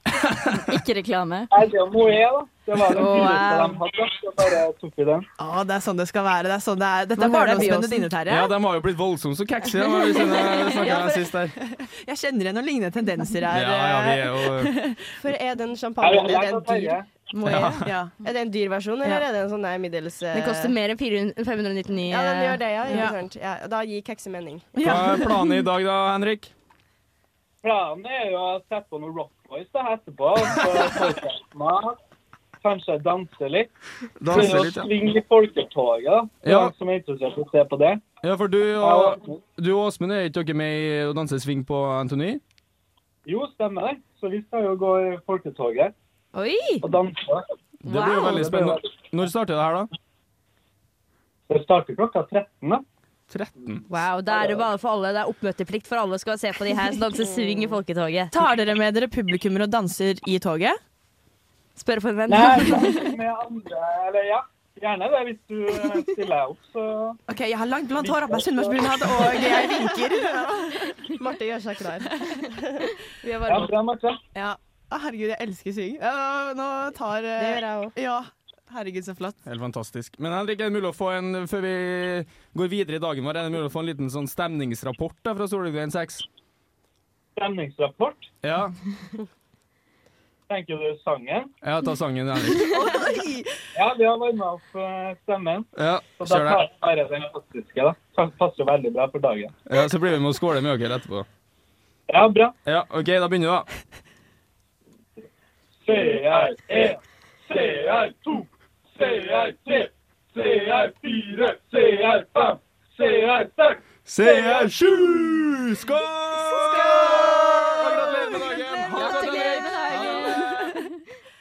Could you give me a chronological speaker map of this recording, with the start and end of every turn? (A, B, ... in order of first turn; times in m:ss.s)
0:00.2-0:00.6 A
0:00.6-0:01.5 B
0:01.5-0:05.3 C
0:03.0-0:03.8 D
0:05.4-0:08.5 E
0:07.2-0:08.1 D
0:08.3-0:11.6 A
0:10.8-0:11.3 F
0:10.8-0:15.2 E
0:13.5-0:14.8 A
0:15.2-0:17.0 F
0:16.0-0:17.2 C
0:17.3-0:17.9 D
0:17.4-0:17.9 A
0:17.8-0:18.1 E
0:18.2-0:20.7 F
0:20.3-0:23.0 D
0:22.1-0:24.8 F
0:22.9-0:23.2 E
0:24.8-0:25.6 E
0:24.8-0:26.5 A
0:27.6-0:32.0 C
0:32.6-0:33.7 C
0:34.2-0:34.9 A
0:34.3-0:38.0 C
0:36.4-0:36.7 A
0:38.2-0:42.4 A
0:38.8-0:39.4 C
0:43.3-0:45.9 C
0:46.4-0:46.8 D
0:46.8-0:49.0 C
0:47.8-0:49.9 A
0:47.9-0:48.2 D
0:51.5-0:52.8 C
0:53.3-0:53.8 A
0:53.9-0:58.3 D
0:54.3-0:54.7 C
0:58.3-1:00.8 E
1:01.8-1:03.1 D
1:02.3-1:07.2 C
1:07.3-1:10.9 E
1:08.0-1:09.2 C
1:11.1-1:12.9 F
1:13.3-1:13.7 E
1:13.5-1:14.2 C
1:14.4-1:19.4 E
1:17.4-1:17.9 F
1:19.5-1:26.3 A
1:27.4-1:28.3 C
1:28.4-1:28.7 A
1:30.5-1:31.5 C
1:31.6-1:32.9 A
1:32.7-1:33.5 E
1:33.8-1:39.6 C
1:35.8-1:36.6 A
1:39.7-1:41.3 A
1:42.1-1:42.6 C
1:42.6-1:43.7 A
1:45.8-1:54.7 C
1:54.1-2:00.4 A
1:58.9-2:00.9 B